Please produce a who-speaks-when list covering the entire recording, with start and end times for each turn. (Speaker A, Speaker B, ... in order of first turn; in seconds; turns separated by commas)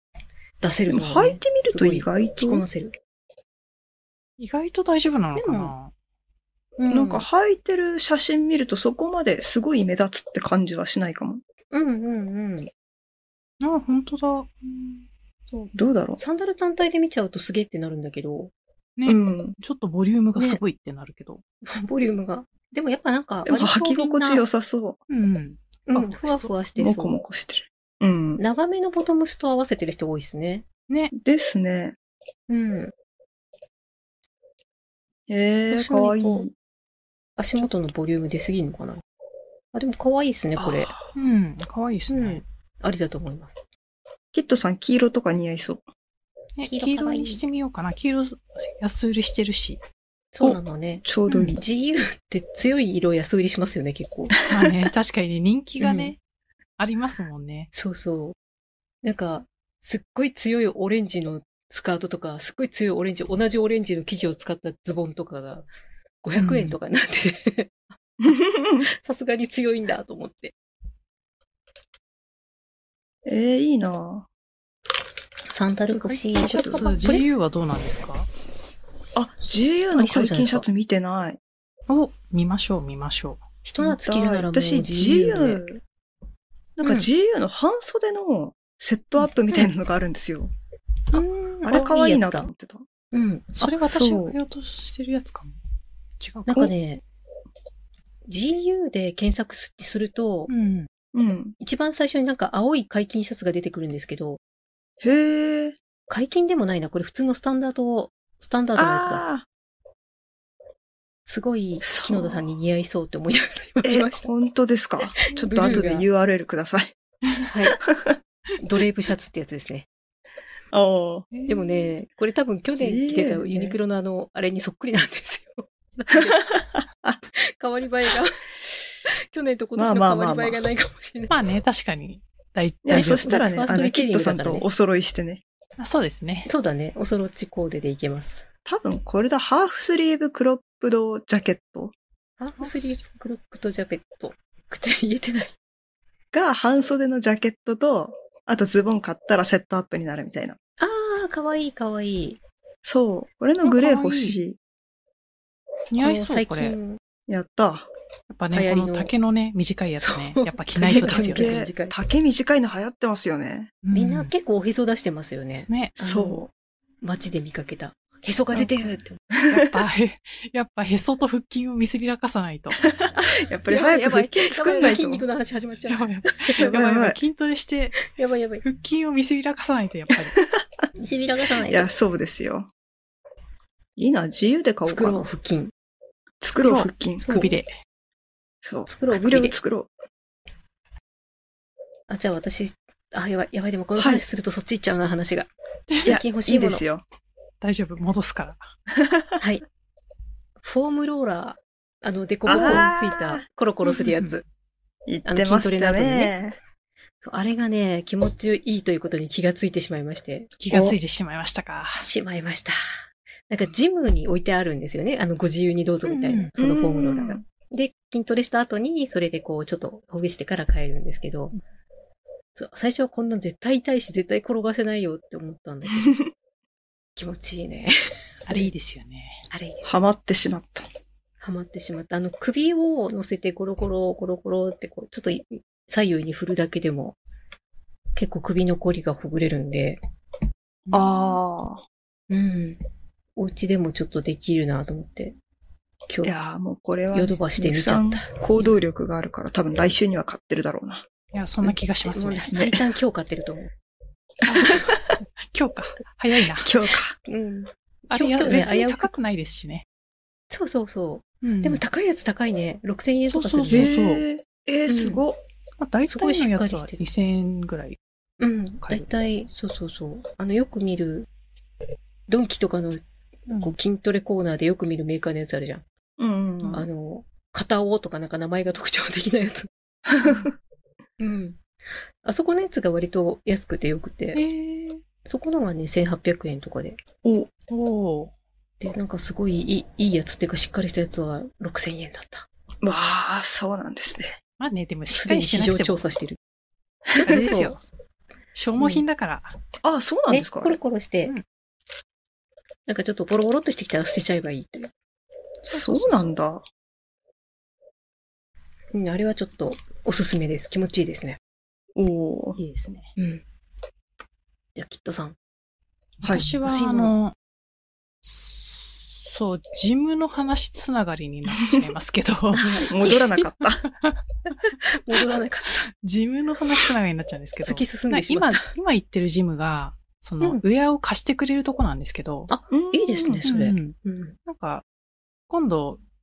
Speaker A: 0.6-3.0, Speaker B: 0.9-2.6, Speaker C: 4.4-5.9, Speaker A: 5.4-5.7, Speaker A: 6.8-7.2, Speaker B: 6.9-11.4, Speaker A: 11.7-12.7, Speaker C: 13.6-15.0, Speaker A: 15.5-18.5, Speaker B: 15.8-16.2, Speaker C: 19.0-21.4, Speaker B: 19.1-19.6, Speaker A: 21.6-24.4, Speaker B: 23.5-25.0, Speaker C: 25.1-26.5, Speaker A: 25.9-27.2, Speaker B: 26.8-28.4, Speaker A: 28.4-30.7, Speaker B: 31.1-32.0, Speaker A: 32.5-32.9, Speaker B: 35.3-36.5, Speaker A: 35.6-36.5, Speaker A: 37.4-39.0, Speaker A: 39.7-40.9, Speaker B: 40.6-41.1, Speaker C: 41.1-42.4, Speaker A: 42.1-43.6, Speaker B: 44.3-45.8, Speaker C: 46.6-49.8, Speaker A: 46.7-47.4, Speaker A: 50.4-54.4, Speaker B: 51.1-51.6, Speaker C: 51.3-51.6, Speaker C: 54.5-56.2, Speaker A: 55.8-56.1, Speaker C: 56.8-57.7, Speaker A: 57.7-58.4, Speaker A: 59.0-65.7, Speaker A: 66.2-67.9, Speaker C: 66.4-66.8, Speaker B: 68.2-68.9, Speaker A: 68.8-70.5, Speaker B: 73.3-74.3, Speaker A: 75.5-77.3, Speaker C: 76.0-78.3, Speaker B: 76.4-76.8, Speaker B: 79.2-81.4, Speaker A: 79.9-80.7, Speaker C: 81.9-83.4, Speaker A: 83.6-85.7, Speaker B: 83.8-85.8, Speaker B: 86.8-90.5, Speaker A: 91.1-92.5, Speaker B: 91.6-92.9, Speaker A: 93.1-93.8, Speaker C: 93.6-95.6, Speaker B: 93.8-94.4, Speaker C: 96.2-96.7, Speaker A: 96.5-97.0, Speaker A: 98.3-100.5, Speaker C: 100.5-100.9, Speaker B: 101.1-101.5, Speaker A: 101.6-104.4, Speaker B: 105.0-105.8, Speaker A: 106.1-109.2, Speaker B: 108.8-109.5, Speaker A: 111.3-114.3, Speaker B: 111.8-112.5, Speaker B: 113.8-116.9, Speaker A: 115.2-116.1, Speaker A: 117.5-117.8, Speaker B: 117.9-118.2, Speaker A: 118.6-119.9, Speaker B: 120.7-121.3, Speaker C: 121.3-121.9, Speaker A: 121.5-126.5, Speaker B: 122.8-123.8, Speaker B: 126.5-127.2, Speaker A: 127.3-128.3, Speaker A: 129.1-131.3, Speaker B: 129.8-130.6, Speaker C: 131.3-133.4, Speaker B: 132.8-135.4, Speaker A: 132.9-134.7, Speaker C: 135.8-136.5, Speaker A: 136.5-138.4, Speaker B: 138.7-141.9, Speaker A: 142.4-145.5, Speaker C: 142.6-143.0, Speaker B: 146.3-150.6, Speaker A: 150.8-152.4, Speaker B: 152.8-154.6, Speaker C: 153.6-154.4, Speaker C: 155.9-156.8, Speaker A: 156.0-157.0, Speaker B: 157.3-157.9, Speaker C: 158.3-161.5, Speaker A: 158.5-159.1, Speaker A: 160.0-162.0, Speaker B: 160.9-163.7, Speaker C: 163.8-164.3, Speaker A: 163.9-166.4, Speaker C: 165.7-165.9, Speaker B: 166.0-166.5, Speaker A: 167.0-169.2, Speaker C: 168.5-168.9, Speaker B: 169.3-169.7, Speaker C: 169.5-172.8, Speaker B: 172.9-175.2, Speaker A: 173.2-176.6, Speaker C: 175.9-178.1, Speaker B: 176.6-177.2, Speaker A: 178.1-178.6, Speaker C: 178.6-180.4, Speaker A: 181.0-181.9, Speaker B: 181.7-182.7, Speaker B: 184.0-185.2, Speaker A: 184.9-185.7, Speaker B: 186.4-187.2, Speaker C: 186.6-187.7, Speaker A: 187.2-187.5, Speaker B: 188.6-189.9, Speaker A: 188.9-189.6, Speaker A: 192.1-195.5, Speaker B: 194.0-194.2, Speaker C: 195.9-196.2, Speaker A: 196.0-196.8, Speaker B: 196.1-197.0, Speaker C: 197.6-198.7, Speaker B: 198.9-199.4, Speaker A: 200.6-204.4, Speaker B: 202.5-203.4, Speaker C: 203.8-204.4, Speaker B: 205.1-206.6, Speaker A: 205.2-206.3, Speaker A: 207.2-210.9, Speaker C: 210.6-212.1, Speaker A: 212.0-212.8, Speaker A: 213.5-221.6, Speaker C: 216.1-216.5, Speaker B: 216.6-217.4, Speaker A: 222.6-226.2, Speaker A: 227.2-228.7, Speaker C: 228.5-229.5, Speaker A: 229.5-229.9, Speaker B: 229.8-230.8, Speaker A: 231.4-237.2, Speaker A: 238.2-240.0, Speaker C: 240.9-241.4, Speaker B: 240.9-241.8, Speaker A: 242.3-242.8, Speaker A: 243.4-245.4, Speaker B: 246.2-251.1, Speaker A: 247.1-248.8, Speaker C: 251.3-252.6, Speaker A: 251.7-253.7, Speaker B: 252.5-252.8, Speaker C: 254.4-256.7, Speaker B: 254.6-255.1, Speaker B: 256.6-257.1, Speaker A: 257.3-259.1, Speaker C: 258.1-259.9, Speaker A: 260.5-263.9, Speaker C: 261.4-261.8, Speaker C: 263.3-264.2, Speaker B: 263.7-265.4, Speaker A: 264.9-265.2, Speaker C: 265.8-268.0, Speaker A: 266.1-267.0, Speaker A: 268.4-271.3, Speaker A: 272.3-273.0, Speaker C: 273.5-273.8, Speaker A: 273.6-275.8, Speaker B: 276.2-276.8, Speaker C: 276.6-276.9, Speaker A: 276.7-279.7, Speaker B: 280.2-280.5, Speaker A: 281.2-281.6, Speaker A: 282.2-284.4, Speaker C: 284.3-285.0, Speaker A: 285.2-287.0, Speaker B: 287.2-287.5, Speaker C: 287.7-288.3, Speaker A: 288.8-292.5, Speaker B: 292.8-294.4, Speaker C: 294.6-296.1, Speaker A: 295.1-296.4, Speaker B: 297.1-297.8, Speaker A: 297.1-297.7, Speaker C: 297.2-297.9, Speaker C: 298.6-299.6, Speaker A: 298.8-299.0, Speaker B: 299.8-300.8, Speaker A: 300.3-301.3, Speaker A: 302.9-304.9, Speaker B: 305.7-306.6, Speaker A: 305.7-306.2, Speaker A: 308.9-311.4, Speaker B: 312.0-312.6, Speaker C: 312.6-313.1, Speaker A: 313.2-313.4, Speaker A: 314.8-315.4, Speaker C: 316.2-317.4, Speaker A: 316.6-317.1, Speaker C: 318.2-322.9, Speaker A: 322.5-323.5, Speaker B: 322.9-323.8, Speaker A: 324.8-325.9, Speaker C: 325.9-332.5, Speaker A: 327.6-328.7, Speaker A: 332.5-334.4, Speaker B: 332.7-333.4, Speaker C: 333.5-334.8, Speaker C: 335.5-336.0